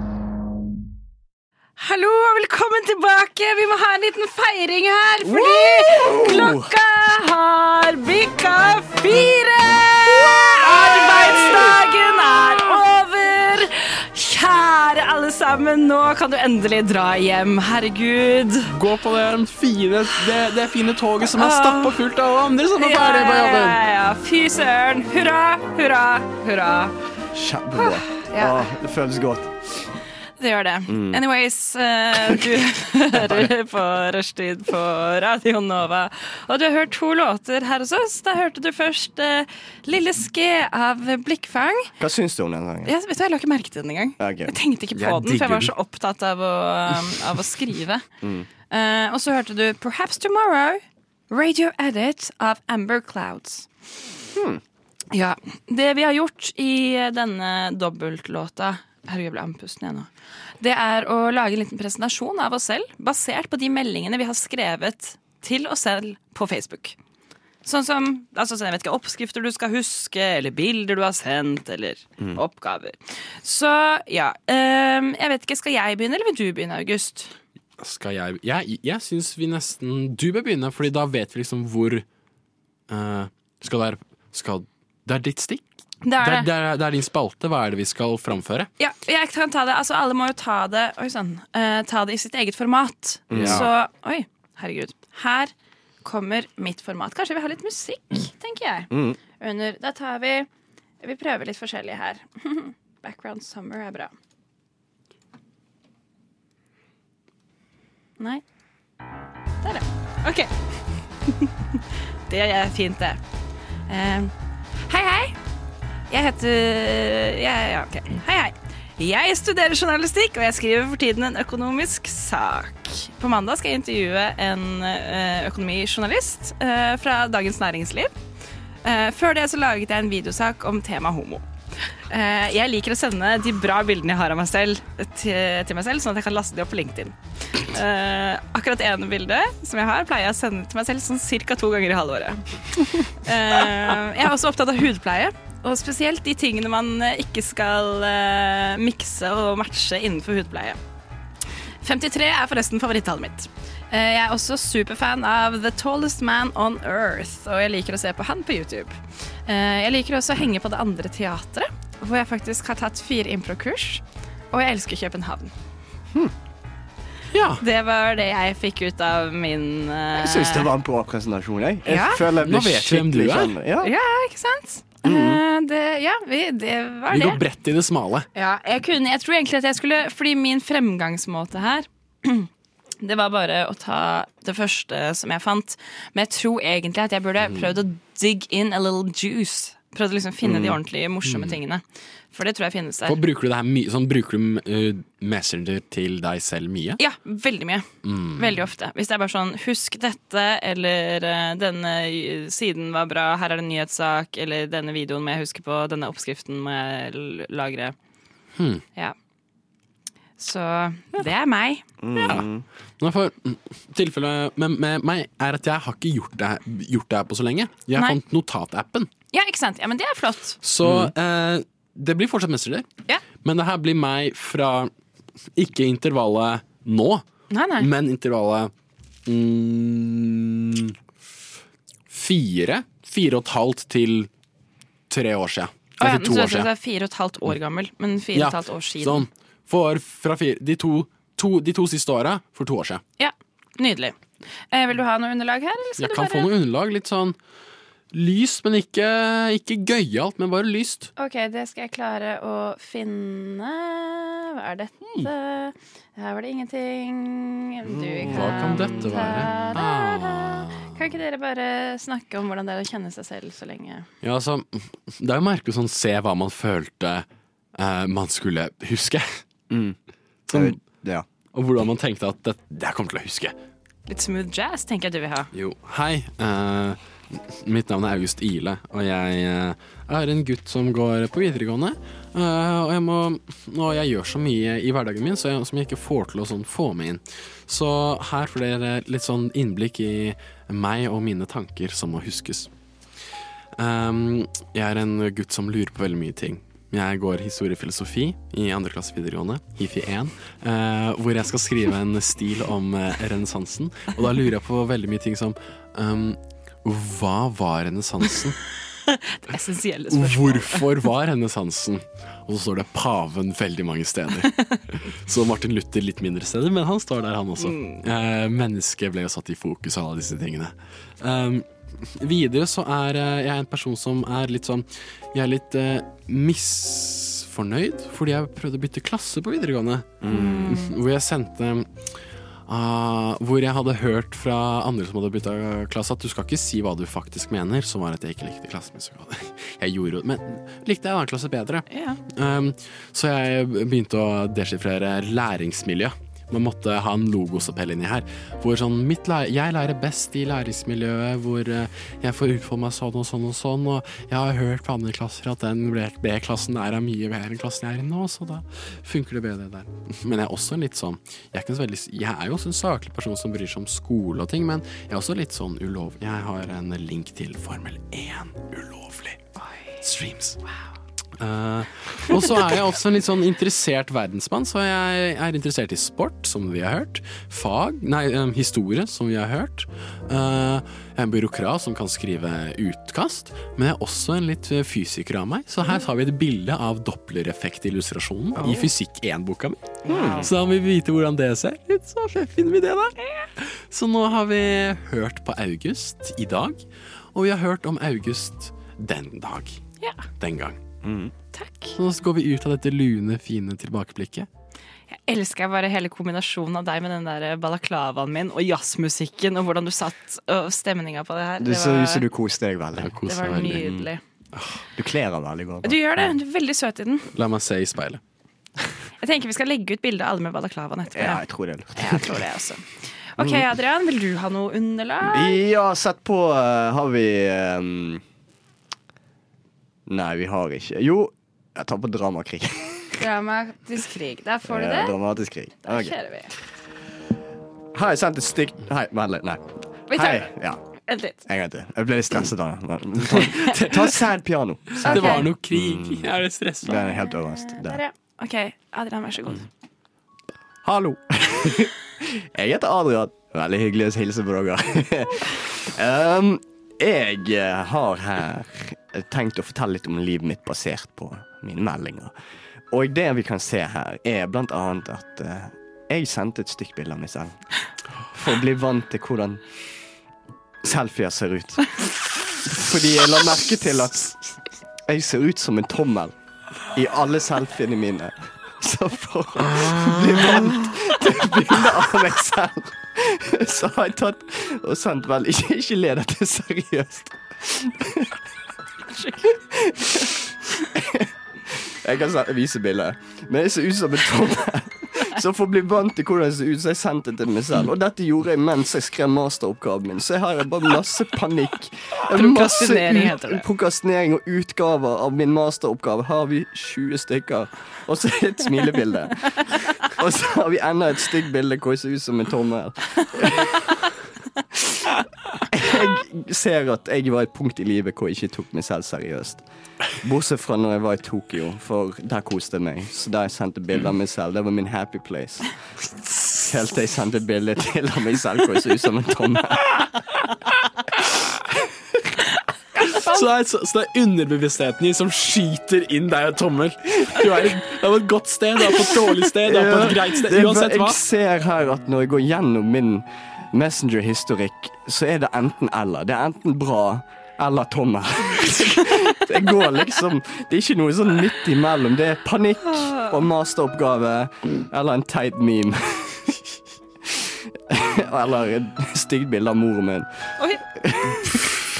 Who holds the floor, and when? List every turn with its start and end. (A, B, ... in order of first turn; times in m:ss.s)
0:01.8-0:18.7 A
0:05.2-0:06.7 B
0:18.7-0:23.8 C
0:21.3-0:22.0 A
0:22.8-0:26.9 A
0:27.3-0:29.5 B
0:27.8-0:28.7 A
0:30.4-0:41.9 A
0:30.9-0:31.2 B
0:42.0-0:42.9 B
0:42.8-0:48.0 A
0:44.2-0:44.5 B
0:44.9-0:45.7 C
0:48.2-0:48.5 B
0:48.7-0:53.7 A
0:54.3-0:54.6 B
0:55.1-1:00.1 A
1:00.6-1:07.0 A
1:07.6-1:17.3 A
1:17.8-1:22.0 C
1:22.9-1:25.6 C
1:26.0-1:26.5 A
1:26.2-1:28.7 C
1:28.8-1:35.5 A
1:33.3-1:33.7 B
1:33.3-1:33.7 C
1:36.0-1:40.5 A
1:38.9-1:39.2 B
1:41.0-1:44.1 A
1:49.6-1:50.5 A
1:51.3-1:53.2 A
1:53.9-1:54.3 A
1:54.9-1:55.4 A
1:56.1-2:08.1 A
2:08.8-2:11.4 A
2:12.1-2:30.8 A
2:31.8-2:45.5 A
2:47.3-2:47.6 C
2:47.6-2:50.7 A
2:50.1-2:53.9 B
2:51.9-2:52.2 A
2:52.4-2:53.6 C
2:53.8-2:57.4 A
2:55.0-2:55.4 B
2:57.1-2:58.3 C
2:58.3-3:02.5 A
3:03.0-3:13.2 A
3:10.4-3:10.8 B
3:11.2-3:11.6 C
3:13.1-3:17.0 C
3:17.0-3:27.9 A
3:18.0-3:18.6 C
3:28.6-3:28.8 C
3:30.4-3:32.3 A
3:32.0-3:32.6 B
3:33.0-3:39.1 C
3:39.3-3:40.6 A
3:40.6-3:42.8 C
3:40.8-3:41.1 B
3:43.4-3:44.9 C
3:45.6-3:47.2 C
3:47.5-3:47.9 A
3:47.8-3:48.7 C
3:49.2-3:50.9 C
3:52.1-3:54.3 C
3:55.1-3:56.7 C
3:56.0-3:59.2 A
3:58.3-4:03.0 C
4:03.2-4:04.2 A
4:04.7-4:06.5 A
4:06.0-4:07.4 C
4:08.1-4:11.1 C
4:11.2-4:24.1 A
4:18.3-4:20.9 C
4:24.2-4:27.2 C
4:27.8-4:29.4 C
4:29.7-4:30.0 B
4:30.5-4:30.8 C
4:30.5-4:31.2 B
4:31.5-4:33.5 C
4:34.1-4:35.5 A
4:35.5-4:52.7 C
4:53.8-5:08.6 C
5:09.1-5:10.8 A
5:10.1-5:31.9 C
5:17.6-5:18.0 A
5:30.2-5:30.7 B
5:30.3-5:30.9 A
5:32.7-6:09.4 C
5:41.9-5:42.2 A
6:10.0-6:10.6 C
6:11.4-6:36.8 C
6:30.1-6:30.5 A
6:30.1-6:30.5 B
6:37.3-6:39.8 C
6:40.4-6:40.8 C
6:41.0-6:41.3 B
6:41.5-6:42.0 A
6:42.0-6:44.5 C
6:45.1-6:52.2 A
6:51.6-6:53.1 B
6:53.0-6:54.0 C
6:53.2-6:54.2 A
6:54.5-6:54.8 C
6:54.9-6:56.3 B
6:55.8-6:57.3 A
6:57.3-6:58.2 C
6:59.2-7:01.4 A
7:01.1-7:02.4 B
7:01.9-7:02.8 A
7:03.3-7:05.6 A
7:03.4-7:03.6 B
7:05.2-7:08.2 B
7:10.1-7:13.1 B
7:13.2-7:15.2 A
7:14.7-7:16.1 B
7:15.8-7:16.5 A
7:17.9-7:20.8 B
7:20.1-7:20.5 A
7:21.0-7:21.4 A
7:21.4-7:26.3 B
7:25.0-7:27.0 C
7:25.0-7:25.4 A
7:26.8-7:28.0 B
7:26.9-7:29.7 A
7:30.8-7:42.3 B
7:42.9-7:47.5 B
7:48.3-7:49.6 B
7:50.8-7:54.3 B
7:55.1-7:56.3 B
7:56.9-8:08.4 B
8:09.4-8:33.8 B
8:22.3-8:23.6 A
8:35.7-8:39.6 B
8:40.2-8:45.7 B
8:46.6-8:50.2 B
8:53.1-9:01.2 C
8:59.6-9:16.5 B
9:12.8-9:13.4 A
9:17.3-9:20.3 B
9:20.6-9:21.5 A
9:21.0-9:21.8 B